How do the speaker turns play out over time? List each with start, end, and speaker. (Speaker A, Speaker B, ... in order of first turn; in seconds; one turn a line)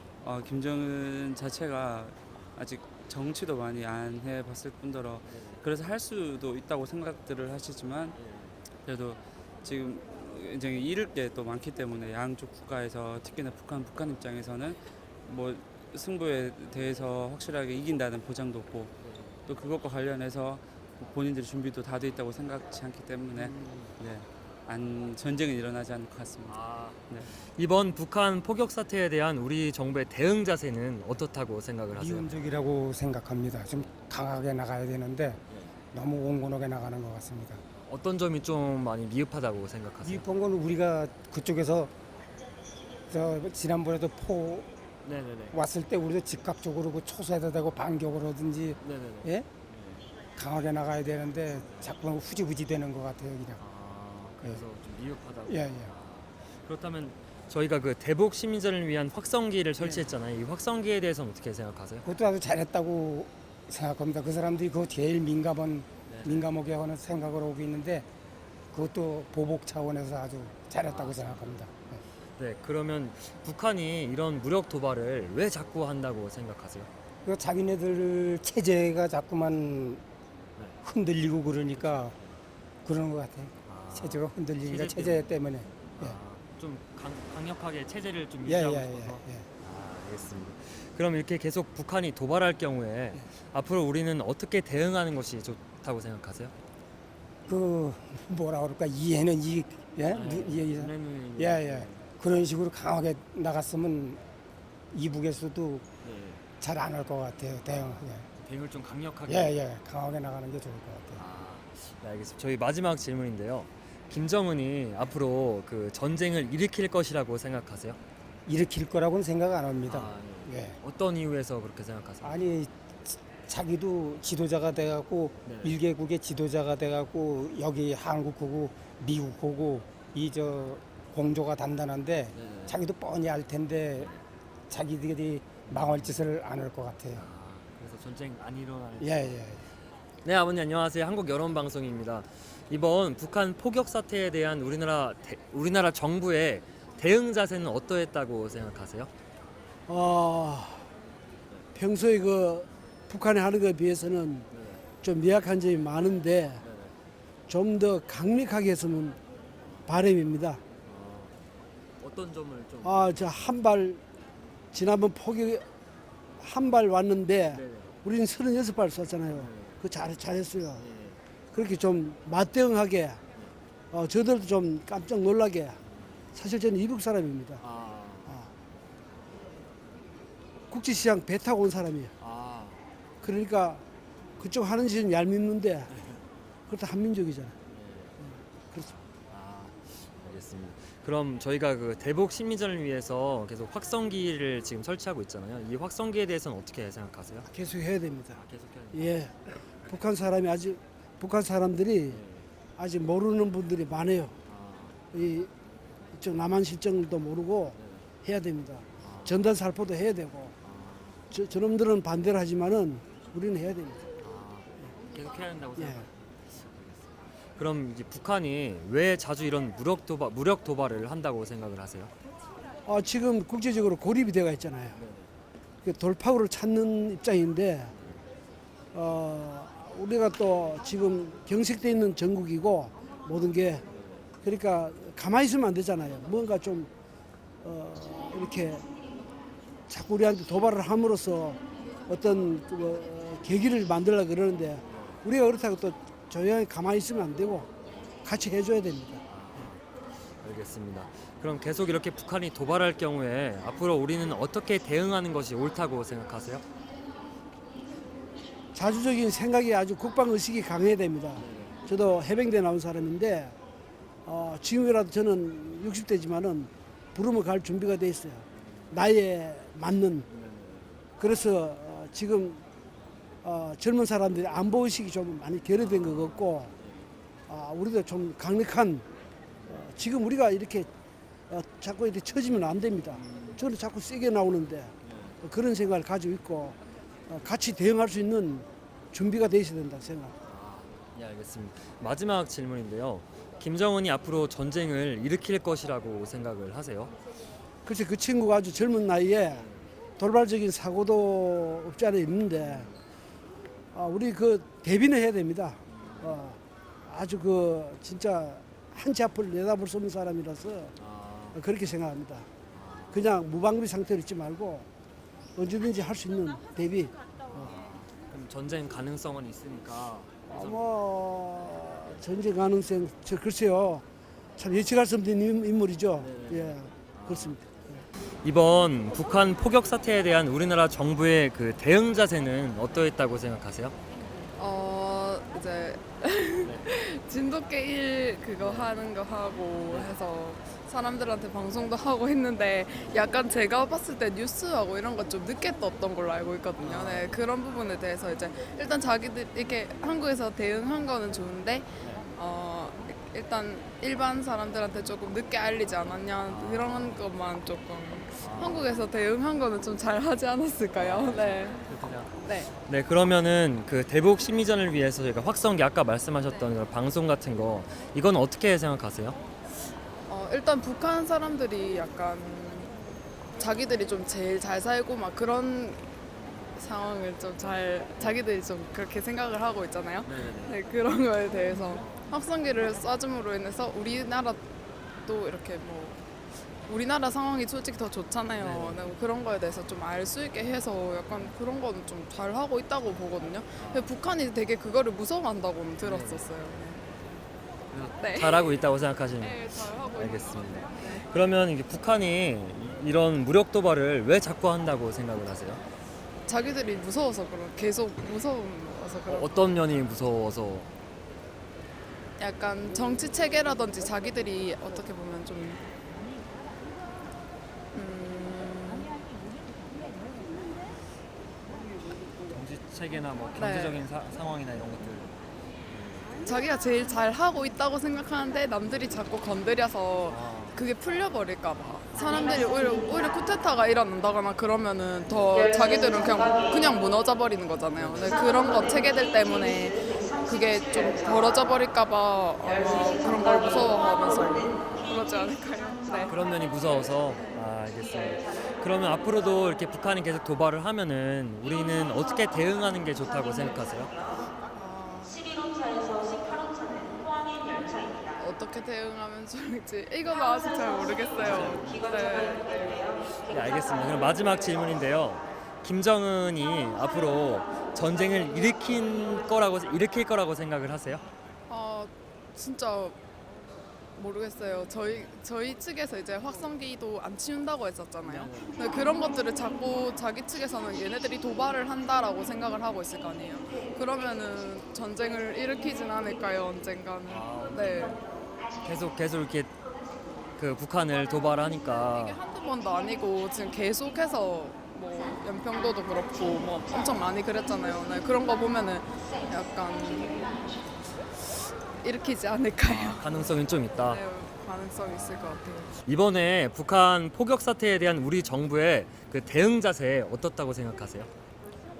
Speaker A: 0.2-8.2
Speaker B: 5.2-5.6
Speaker B: 8.1-8.6
Speaker A: 8.8-18.9
Speaker B: 19.0-19.4
Speaker A: 19.5-27.3
Speaker B: 23.3-23.9
Speaker B: 26.4-32.4
Speaker C: 31.9-35.4
Speaker B: 35.5-35.8
Speaker C: 35.9-37.6
Speaker B: 37.9-40.2
Speaker C: 40.0-41.9
Speaker C: 43.1-44.7
Speaker B: 45.0-45.5
Speaker C: 45.5-49.5
Speaker B: 48.8-50.0
Speaker C: 50.4-53.6
Speaker B: 53.6-62.0
Speaker C: 55.5-55.9
Speaker C: 62.0-68.0
Speaker B: 66.1-66.5
Speaker C: 68.7-72.0
Speaker B: 70.8-71.7
Speaker B: 72.4-76.9
Speaker C: 77.2-80.0
Speaker C: 80.8-82.2
Speaker B: 81.7-82.4
Speaker C: 82.8-86.2
Speaker B: 83.7-96.5
Speaker C: 88.4-89.5
Speaker C: 97.5-104.2
Speaker B: 100.1-102.0
Speaker C: 104.9-105.8
Speaker B: 106.0-106.4
Speaker C: 106.6-108.2
Speaker B: 107.7-109.5
Speaker C: 109.3-111.2
Speaker B: 111.2-118.0
Speaker C: 118.5-120.8
Speaker B: 119.8-122.4
Speaker C: 122.2-134.1
Speaker B: 125.4-125.8
Speaker B: 132.3-132.8
Speaker C: 134.7-137.2
Speaker B: 135.7-136.2
Speaker B: 137.1-139.3
Speaker C: 139.0-139.6
Speaker B: 140.2-149.1
Speaker D: 149.9-150.9
Speaker D: 151.7-154.5
Speaker B: 154.5-154.8
Speaker D: 155.0-156.6
Speaker B: 156.6-156.9
Speaker D: 157.5-159.2
Speaker D: 159.8-160.6
Speaker B: 160.8-161.3
Speaker B: 162.0-163.3
Speaker D: 162.8-164.0
Speaker D: 164.7-165.6
Speaker D: 166.4-170.8
Speaker B: 167.5-167.9
Speaker B: 169.3-169.8
Speaker B: 170.8-171.2
Speaker D: 171.5-173.2
Speaker D: 173.9-175.8
Speaker B: 175.8-176.2
Speaker D: 176.3-177.6
Speaker B: 177.6-178.4
Speaker D: 180.7-182.1
Speaker B: 182.2-182.8
Speaker D: 183.2-183.8
Speaker D: 184.4-185.9
Speaker B: 185.9-186.2
Speaker D: 186.7-187.6
Speaker B: 187.7-188.2
Speaker D: 188.2-188.9
Speaker B: 188.8-197.5
Speaker D: 197.4-202.2
Speaker B: 198.3-199.2
Speaker B: 202.1-202.5
Speaker D: 202.8-204.3
Speaker B: 204.4-205.0
Speaker D: 205.1-205.5
Speaker D: 206.1-210.5
Speaker B: 207.7-208.1
Speaker B: 209.0-209.4
Speaker B: 210.6-211.2
Speaker D: 211.3-214.1
Speaker B: 214.2-222.1
Speaker D: 215.8-216.1
Speaker D: 222.8-225.0
Speaker B: 224.9-225.3
Speaker D: 225.8-227.9
Speaker B: 227.9-228.2
Speaker D: 228.9-233.8
Speaker B: 233.9-234.3
Speaker D: 234.4-236.9
Speaker D: 237.6-238.8
Speaker D: 239.9-247.7
Speaker B: 244.8-245.2
Speaker D: 248.2-249.2
Speaker B: 249.3-249.8
Speaker B: 250.4-256.6
Speaker D: 258.7-263.6
Speaker B: 261.3-261.8
Speaker D: 264.2-270.3
Speaker B: 268.5-268.9
Speaker B: 270.3-271.0
Speaker D: 271.2-272.6
Speaker D: 273.4-276.7
Speaker B: 275.8-277.1
Speaker D: 277.5-279.1
Speaker D: 279.6-280.9
Speaker D: 281.5-286.8
Speaker B: 283.1-283.6
Speaker B: 285.0-285.4
Speaker D: 287.3-290.3
Speaker B: 290.4-297.1
Speaker D: 297.8-299.7
Speaker B: 299.5-299.9
Speaker D: 300.2-302.9
Speaker B: 302.6-303.0
Speaker D: 303.9-310.9
Speaker B: 305.9-306.4
Speaker B: 310.9-311.6
Speaker D: 311.5-312.5
Speaker B: 312.7-313.3
Speaker D: 313.1-314.9
Speaker D: 315.6-317.7
Speaker B: 317.5-320.9
Speaker D: 320.5-324.0
Speaker D: 324.6-328.0
Speaker B: 326.2-327.6
Speaker B: 328.4-333.9
Speaker E: 334.6-361.8
Speaker B: 338.6-338.9
Speaker B: 339.9-340.1
Speaker B: 343.0-343.3
Speaker B: 346.8-347.5
Speaker B: 352.0-352.3
Speaker B: 356.4-357.3
Speaker B: 358.4-358.9
Speaker B: 361.0-369.4
Speaker E: 362.4-362.7
Speaker E: 370.3-372.9
Speaker E: 373.6-376.0
Speaker B: 376.4-376.7
Speaker E: 376.8-384.6
Speaker B: 380.2-380.8
Speaker B: 381.8-382.3
Speaker E: 385.2-386.1
Speaker E: 386.8-397.0
Speaker B: 388.6-389.0
Speaker B: 393.8-394.1
Speaker B: 396.0-396.5
Speaker B: 397.0-397.3
Speaker B: 397.9-405.8
Speaker E: 398.2-398.8
Speaker E: 399.4-401.3
Speaker E: 406.5-409.8
Speaker B: 409.3-410.9
Speaker E: 412.4-415.8
Speaker E: 417.9-419.1
Speaker B: 422.5-426.4
Speaker E: 423.6-424.0
Speaker E: 426.4-446.3
Speaker B: 430.3-430.8
Speaker B: 437.9-438.4
Speaker B: 444.8-445.2
Speaker B: 446.2-454.1
Speaker E: 454.7-455.5
Speaker E: 458.4-462.8
Speaker B: 461.4-462.1
Speaker B: 462.8-471.2
Speaker E: 471.7-473.1
Speaker E: 474.1-488.2
Speaker B: 478.2-478.8
Speaker B: 487.3-488.2
Speaker B: 488.8-489.7
Speaker B: 490.6-492.4
Speaker E: 492.1-500.5
Speaker E: 502.0-503.3
Speaker B: 502.9-504.2
Speaker E: 504.0-505.9
Speaker B: 505.1-511.3